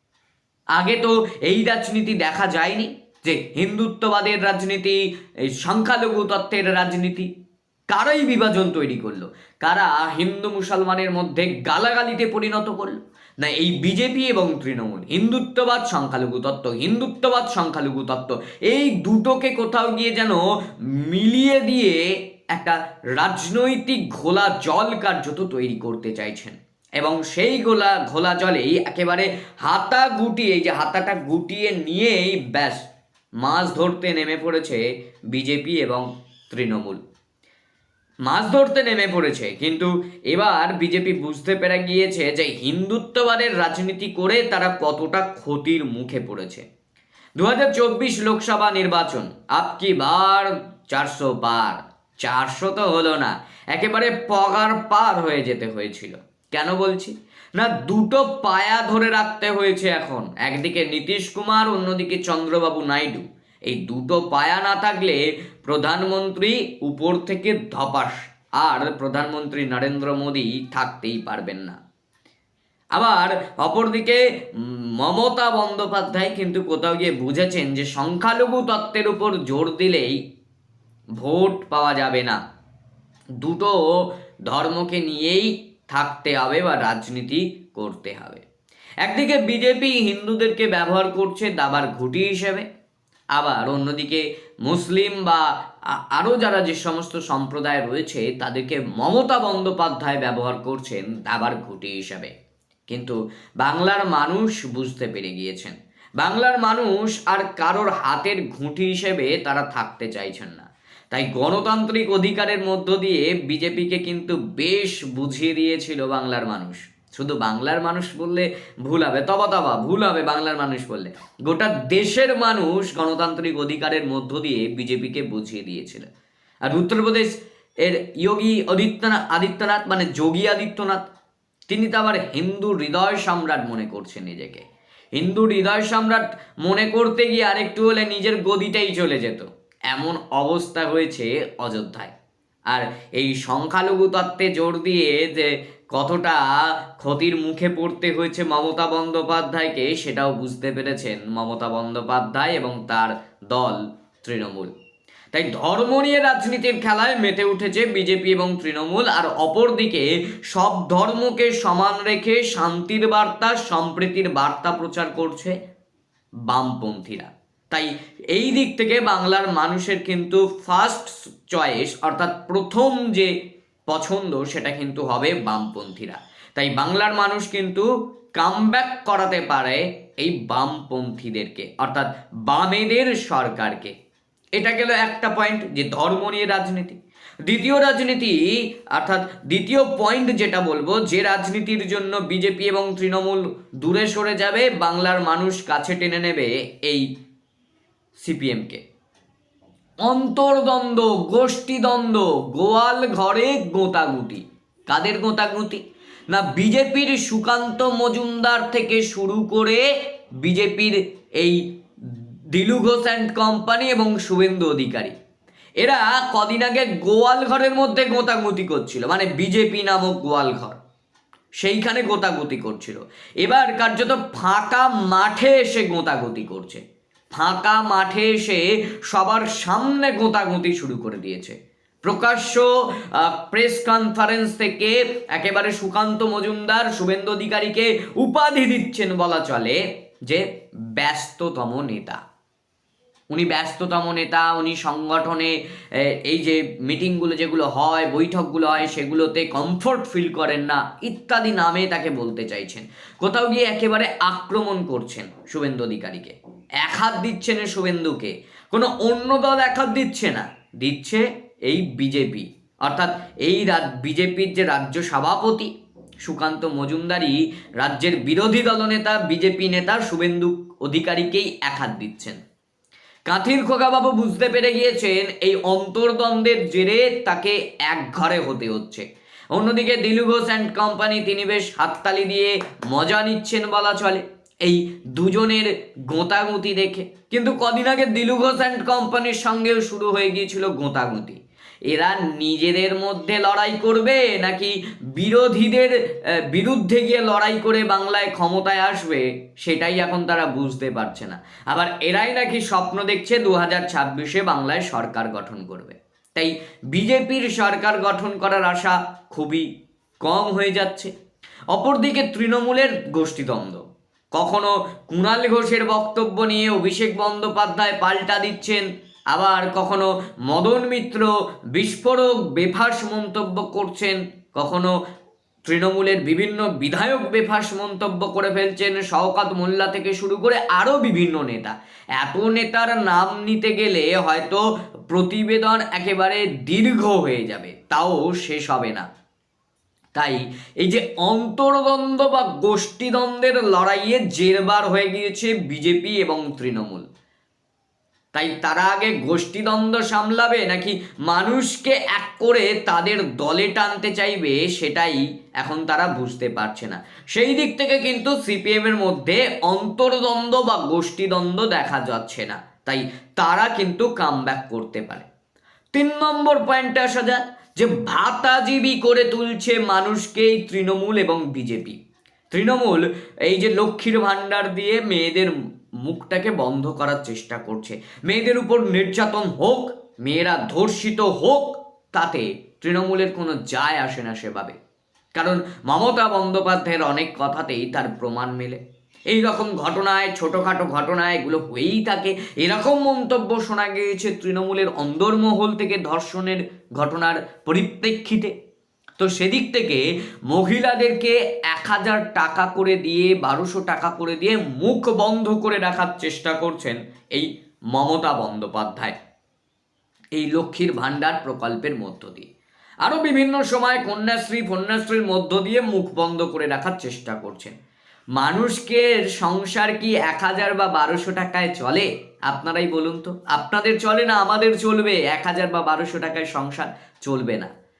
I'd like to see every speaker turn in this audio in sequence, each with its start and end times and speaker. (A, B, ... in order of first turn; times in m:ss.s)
0:00.7-0:07.3 A
0:07.9-0:20.4 A
0:21.0-0:32.8 A
0:33.4-0:37.0 A
0:38.2-0:46.6 A
0:47.4-1:11.8 A
1:12.9-1:20.2 A
1:21.2-1:22.4 A
1:23.4-1:28.4 A
1:29.0-1:32.6 A
1:33.3-1:42.3 A
1:42.9-2:06.1 A
2:06.6-2:11.1 A
2:11.7-2:14.6 A
2:15.1-2:22.1 A
2:22.7-2:34.7 A
2:35.3-2:45.6 A
2:46.5-2:53.3 A
2:53.9-3:03.9 A
3:04.6-3:08.4 A
3:08.9-3:17.0 A
3:18.2-3:18.8 A
3:20.0-3:29.8 A
3:30.4-3:31.6 A
3:32.5-3:35.1 A
3:35.8-3:40.8 A
3:41.6-3:46.8 A
3:47.3-4:02.2 A
4:03.3-4:25.7 A
4:26.2-4:32.4 A
4:33.3-5:09.7 A
5:10.2-5:11.1 A
5:11.7-5:24.9 A
5:25.6-5:39.0 A
5:40.1-5:47.1 A
5:48.3-6:05.3 A
6:05.9-6:12.0 A
6:12.5-6:24.8 A
6:25.3-6:38.5 A
6:39.2-6:49.2 A
6:50.3-6:52.5 A
6:53.0-6:57.7 A
6:58.4-7:07.7 A